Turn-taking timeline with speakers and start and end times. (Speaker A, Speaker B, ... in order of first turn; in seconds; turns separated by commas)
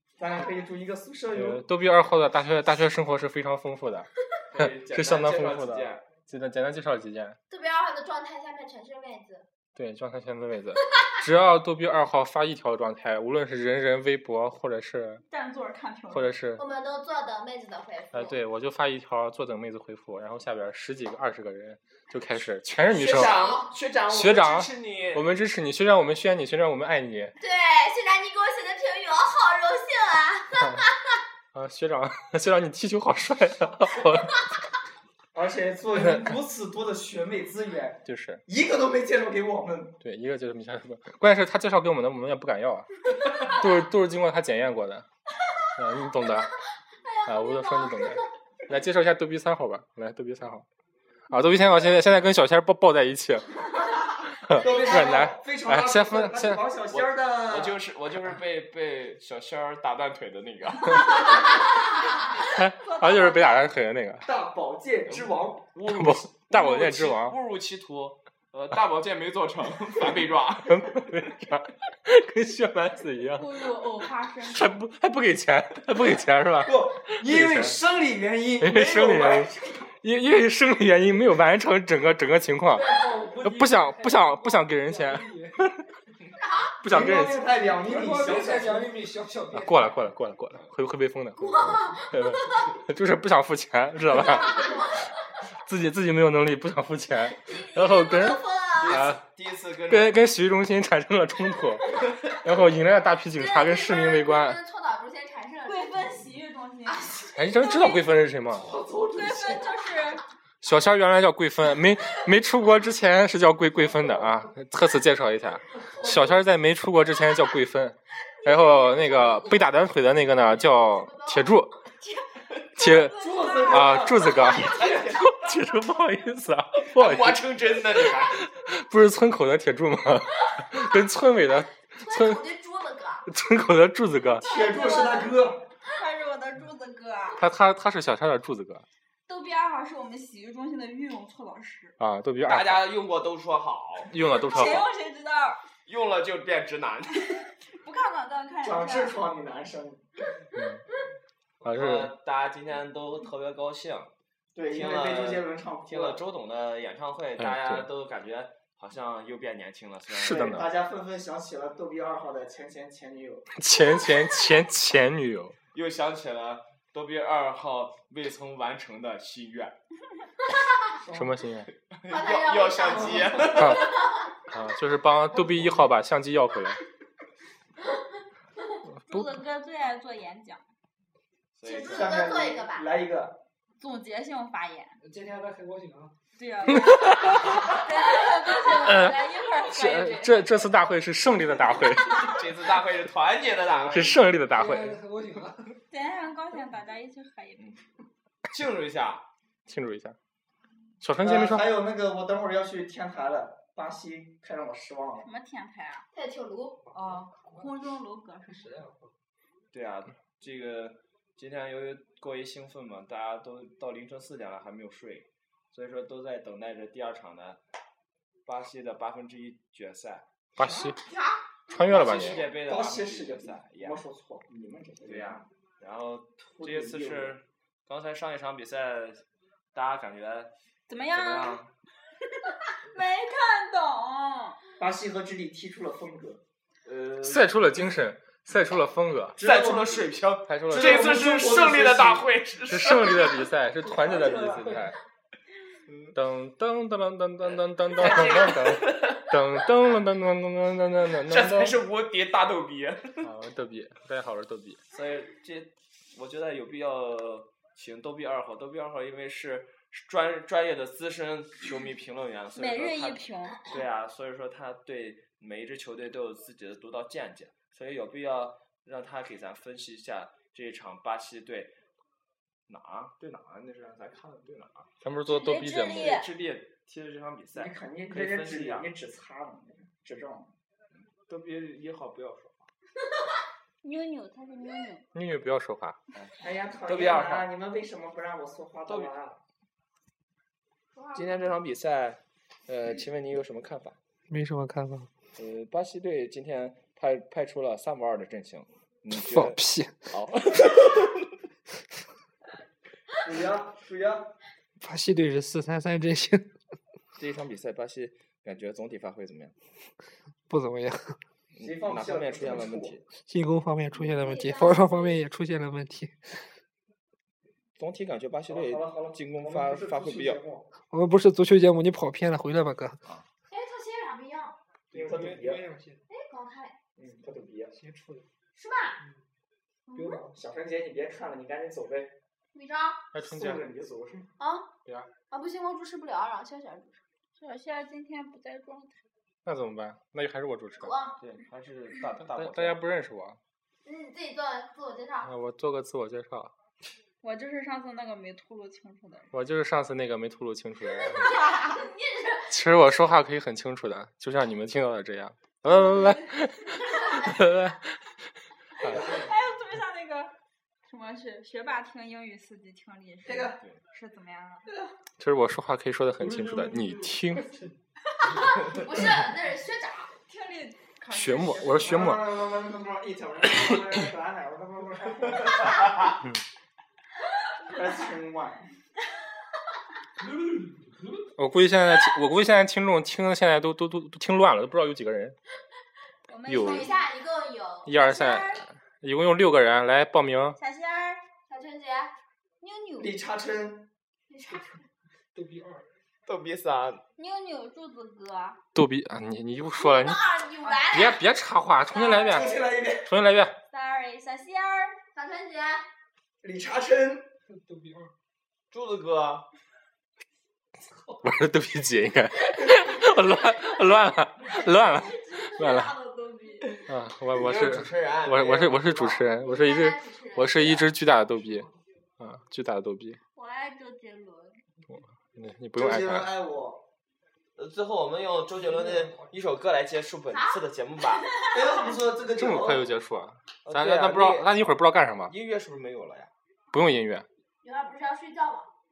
Speaker A: 0.2-1.6, Speaker B: 1.3-7.4, Speaker C: 4.5-6.0, Speaker D: 7.5-9.4, Speaker B: 9.8-15.2, Speaker E: 15.3-16.3, Speaker B: 16.1-16.6, Speaker D: 16.6-18.4, Speaker B: 18.1-23.4, Speaker C: 22.9-25.2, Speaker D: 23.2-23.7, Speaker B: 24.1-27.3, Speaker D: 27.4-31.2, Speaker B: 31.5-34.4, Speaker A: 35.3-40.0, Speaker B: 36.1-36.3, Speaker B: 38.1-38.4, Speaker B: 40.0-42.9, Speaker B: 43.4-45.1, Speaker B: 45.8-46.5, Speaker D: 47.1-48.2, Speaker B: 47.3-50.7, Speaker B: 51.3-53.6, Speaker B: 54.4-56.6, Speaker A: 54.6-57.8, Speaker D: 54.6-55.1, Speaker C: 56.9-61.3, Speaker B: 62.5-64.2, Speaker E: 62.8-63.6, Speaker A: 64.2-65.7, Speaker C: 65.1-71.1, Speaker B: 65.9-67.4, Speaker B: 70.7-73.5, Speaker E: 73.3-74.8, Speaker B: 74.5-77.8, Speaker A: 76.6-79.6, Speaker B: 78.6-85.8, Speaker F: 82.7-85.7, Speaker D: 86.4-86.8, Speaker B: 86.8-87.5, Speaker A: 86.9-88.9, Speaker F: 87.7-90.0, Speaker B: 89.5-94.9, Speaker D: 91.4-92.7, Speaker D: 94.3-95.0, Speaker B: 95.7-99.2, Speaker D: 97.5-99.0, Speaker C: 98.8-100.3, Speaker B: 99.9-104.6, Speaker D: 103.3-106.1, Speaker E: 105.7-107.2, Speaker D: 106.9-108.0, Speaker B: 107.3-108.7, Speaker A: 108.5-109.7, Speaker E: 109.2-110.2, Speaker B: 110.6-121.7, Speaker D: 120.6-121.5, Speaker B: 122.8-132.4, Speaker E: 122.8-124.1, Speaker A: 123.2-125.0, Speaker C: 124.4-125.3, Speaker C: 126.8-128.4, Speaker D: 132.0-133.3, Speaker B: 133.3-134.5, Speaker A: 134.4-135.6, Speaker E: 134.4-135.4, Speaker E: 135.9-137.4, Speaker B: 137.4-138.8, Speaker E: 139.3-141.9, Speaker B: 142.0-142.8, Speaker C: 142.4-144.1, Speaker B: 144.1-144.9, Speaker E: 144.5-145.6, Speaker C: 145.9-147.4, Speaker E: 147.7-149.2, Speaker A: 148.6-150.0, Speaker B: 150.6-150.8, Speaker C: 151.6-154.1, Speaker B: 151.6-152.1, Speaker A: 154.6-156.2, Speaker C: 154.7-160.6, Speaker B: 157.4-157.8, Speaker B: 160.1-160.7, Speaker A: 160.2-163.5, Speaker B: 163.6-165.6, Speaker C: 165.7-169.8, Speaker F: 171.1-171.3, Speaker B: 171.1-171.7, Speaker C: 171.9-174.0, Speaker D: 172.1-174.3, Speaker B: 173.6-173.9, Speaker B: 174.5-176.8, Speaker E: 179.1-180.6, Speaker C: 181.6-182.3, Speaker D: 181.6-182.9, Speaker A: 181.8-183.4, Speaker E: 183.8-185.0, Speaker F: 185.0-186.1, Speaker E: 186.4-190.5, Speaker B: 187.0-187.3, Speaker B: 188.7-192.4, Speaker C: 192.1-194.2, Speaker B: 193.9-195.0, Speaker F: 194.5-195.8, Speaker E: 195.9-197.7, Speaker C: 198.5-199.2, Speaker B: 199.7-200.2, Speaker B: 201.0-201.7, Speaker A: 201.2-205.3, Speaker E: 205.2-206.1, Speaker D: 206.1-206.8, Speaker F: 206.9-207.7, Speaker E: 207.0-208.6, Speaker F: 208.5-209.1, Speaker C: 209.7-217.6, Speaker C: 218.4-220.2, Speaker B: 220.6-221.0, Speaker D: 220.9-221.4, Speaker B: 221.7-222.4, Speaker C: 221.8-224.0, Speaker A: 221.9-225.5, Speaker C: 225.0-230.5, Speaker A: 226.6-227.4, Speaker E: 230.9-231.6, Speaker C: 231.1-231.7, Speaker E: 232.7-234.6, Speaker A: 234.8-236.4, Speaker C: 236.8-237.8, Speaker B: 237.2-239.4, Speaker C: 239.4-243.3, Speaker A: 239.4-240.1, Speaker B: 240.5-241.3, Speaker A: 240.7-242.3, Speaker B: 242.7-245.0, Speaker A: 244.0-244.6, Speaker F: 244.1-244.9, Speaker C: 245.9-246.2, Speaker B: 246.2-251.8, Speaker C: 247.9-249.3, Speaker C: 251.3-253.3, Speaker B: 253.2-254.8, Speaker C: 254.9-271.7, Speaker E: 262.6-263.6, Speaker C: 272.7-274.9, Speaker B: 275.0-276.2, Speaker E: 275.3-276.3, Speaker C: 275.9-278.9, Speaker A: 277.6-280.5, Speaker C: 281.1-282.7, Speaker E: 283.8-285.1, Speaker B: 285.1-286.0, Speaker C: 286.1-287.5, Speaker A: 286.4-289.4, Speaker C: 288.9-289.1, Speaker D: 290.9-291.5, Speaker C: 291.1-294.0, Speaker F: 294.3-295.1, Speaker C: 295.4-301.2, Speaker F: 299.1-300.1, Speaker A: 303.2-304.3, Speaker F: 304.8-306.5, Speaker C: 307.2-309.5, Speaker F: 310.5-311.2, Speaker C: 311.5-313.1, Speaker A: 311.6-313.0, Speaker F: 313.2-316.5, Speaker D: 313.9-315.2, Speaker C: 317.8-320.4, Speaker A: 318.5-320.7, Speaker F: 320.9-323.0, Speaker D: 323.5-324.6, Speaker A: 324.9-325.6, Speaker F: 324.9-326.0, Speaker D: 326.1-326.8, Speaker A: 327.0-327.7, Speaker F: 327.7-328.3, Speaker D: 328.6-329.0, Speaker D: 329.9-330.2, Speaker F: 329.9-330.4, Speaker A: 330.3-332.1, Speaker D: 332.5-333.1, Speaker B: 333.1-333.6, Speaker A: 333.2-334.3, Speaker D: 334.4-334.7, Speaker D: 335.3-337.0, Speaker E: 337.4-339.0, Speaker B: 339.4-340.9, Speaker D: 340.8-341.2, Speaker C: 341.2-342.8, Speaker B: 342.3-343.4, Speaker D: 343.8-345.3, Speaker B: 345.2-346.5, Speaker E: 347.2-349.3, Speaker B: 349.3-351.4, Speaker D: 351.1-352.5, Speaker E: 351.2-351.8, Speaker B: 352.5-358.0, Speaker B: 358.8-359.1, Speaker E: 358.9-360.3, Speaker E: 360.9-364.7, Speaker A: 363.2-363.6, Speaker B: 365.2-367.5, Speaker F: 366.2-367.7, Speaker D: 368.3-370.1, Speaker E: 370.3-371.9, Speaker B: 371.1-372.2, Speaker A: 371.7-376.1, Speaker A: 377.7-378.7, Speaker F: 380.4-380.9, Speaker B: 381.4-385.4, Speaker E: 386.3-387.0, Speaker B: 386.5-386.9, Speaker D: 386.5-387.9, Speaker B: 387.9-390.6, Speaker E: 387.9-388.6, Speaker E: 390.6-391.2, Speaker D: 391.5-392.1, Speaker E: 392.6-393.1, Speaker A: 393.0-393.9, Speaker D: 394.3-394.8, Speaker F: 395.3-395.9, Speaker C: 396.3-397.0, Speaker E: 397.2-398.6, Speaker B: 398.7-400.2, Speaker D: 399.8-401.2, Speaker B: 400.9-403.6, Speaker E: 401.9-402.4, Speaker A: 402.3-403.1, Speaker E: 403.7-405.0, Speaker D: 405.1-405.8, Speaker A: 406.4-407.3, Speaker F: 407.5-408.1, Speaker C: 408.7-409.5, Speaker B: 411.2-415.9, Speaker E: 414.7-416.8, Speaker B: 416.9-421.7, Speaker C: 417.3-419.3, Speaker D: 419.4-420.9, Speaker B: 422.2-423.2, Speaker E: 423.4-424.6, Speaker B: 424.9-426.3, Speaker A: 425.8-426.8, Speaker C: 427.6-431.3, Speaker F: 428.6-429.3, Speaker D: 430.3-430.6, Speaker A: 431.5-432.9, Speaker B: 432.4-435.3, Speaker C: 433.6-434.5, Speaker C: 435.3-436.3, Speaker B: 436.7-437.3, Speaker D: 437.6-438.7